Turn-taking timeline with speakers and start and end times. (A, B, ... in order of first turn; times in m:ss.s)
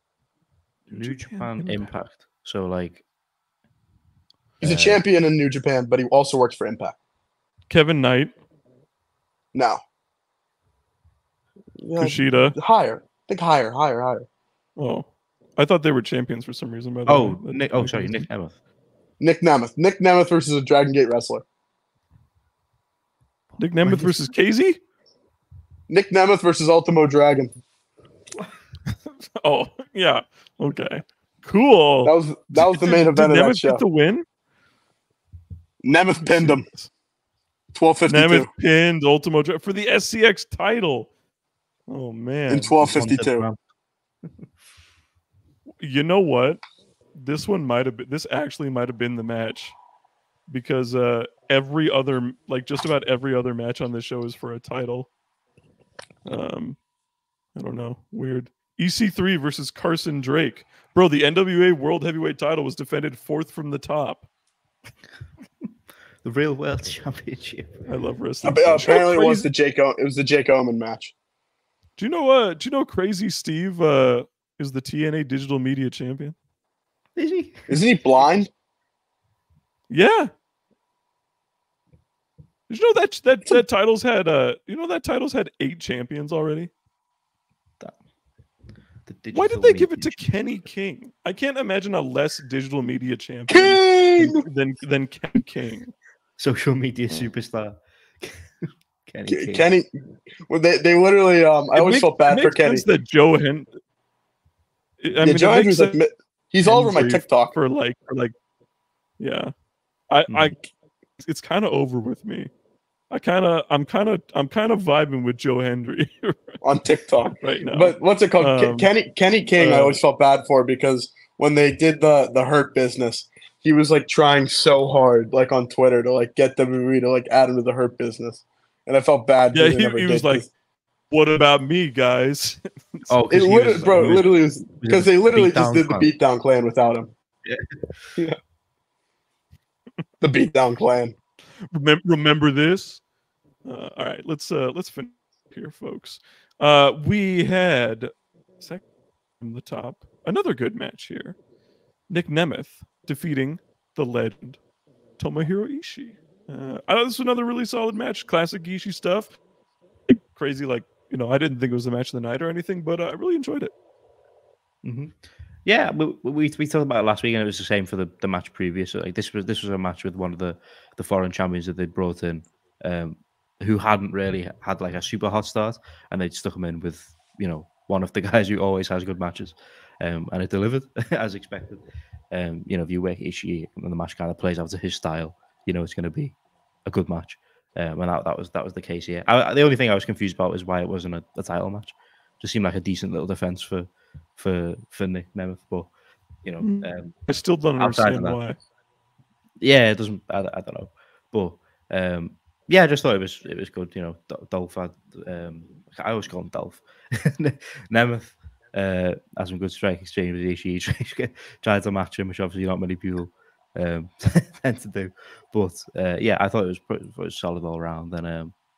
0:00.9-0:01.9 A
0:00.9-0:03.0 B
0:04.6-0:05.0 B
0:04.6-0:07.0 C
0:07.7-0:08.3 A
0:09.5-0:09.8 C
0:11.8-0:14.3 C
0:12.0-0:12.6 A
0:14.8-0:18.2 A
0:17.1-0:18.6 B
0:19.2-0:21.4 C
0:23.6-0:24.8 A
0:25.9-0:27.5 C
0:29.1-0:34.2 A
0:32.0-0:33.8 C
0:35.8-0:36.6 C
0:36.2-0:36.9 A
0:37.8-0:38.5 C
0:38.1-0:41.1 A
0:41.9-0:42.7 A
0:42.5-0:43.4 C
0:42.8-0:43.6 B
0:45.8-0:46.6 A
0:47.2-0:49.8 A
0:50.5-0:55.1 A
0:56.2-0:56.8 A
0:57.6-1:04.2 A
1:06.2-1:07.8 B
1:07.9-1:09.5 A
1:08.4-1:11.1 C
1:12.0-1:16.4 A
1:17.2-1:17.8 B
1:17.7-1:18.5 C
1:19.9-1:20.3 A
1:22.7-1:26.7 A
1:29.0-1:30.2 B
1:29.3-1:35.9 A
1:33.5-1:34.4 C
1:36.4-1:38.5 B
1:39.0-1:39.7 B
1:39.3-1:39.9 C
1:40.5-1:42.8 C
1:41.7-1:43.7 A
1:45.0-1:46.0 A
1:45.2-1:47.5 C
1:46.6-1:48.3 A
1:49.2-1:49.5 A
1:50.1-1:50.6 A
1:50.3-1:50.5 B
1:51.2-1:52.5 A
1:53.1-1:56.6 A
1:56.6-2:10.5 C
1:57.4-1:58.9 A
1:59.6-2:00.0 A
2:09.5-2:10.4 A
2:11.1-2:14.2 A
2:13.1-2:14.2 B
2:13.3-2:17.1 C
2:14.8-2:16.1 B
2:20.2-2:21.1 C
2:21.7-2:23.0 A
2:23.6-2:28.8 A
2:29.4-2:31.4 A
2:32.1-2:34.6 A
2:35.2-2:39.3 A
2:40.1-2:43.7 A
2:44.8-3:15.9 B
3:16.4-3:17.2 B
3:16.6-3:18.6 A
3:17.8-3:18.4 B
3:19.6-3:38.5 B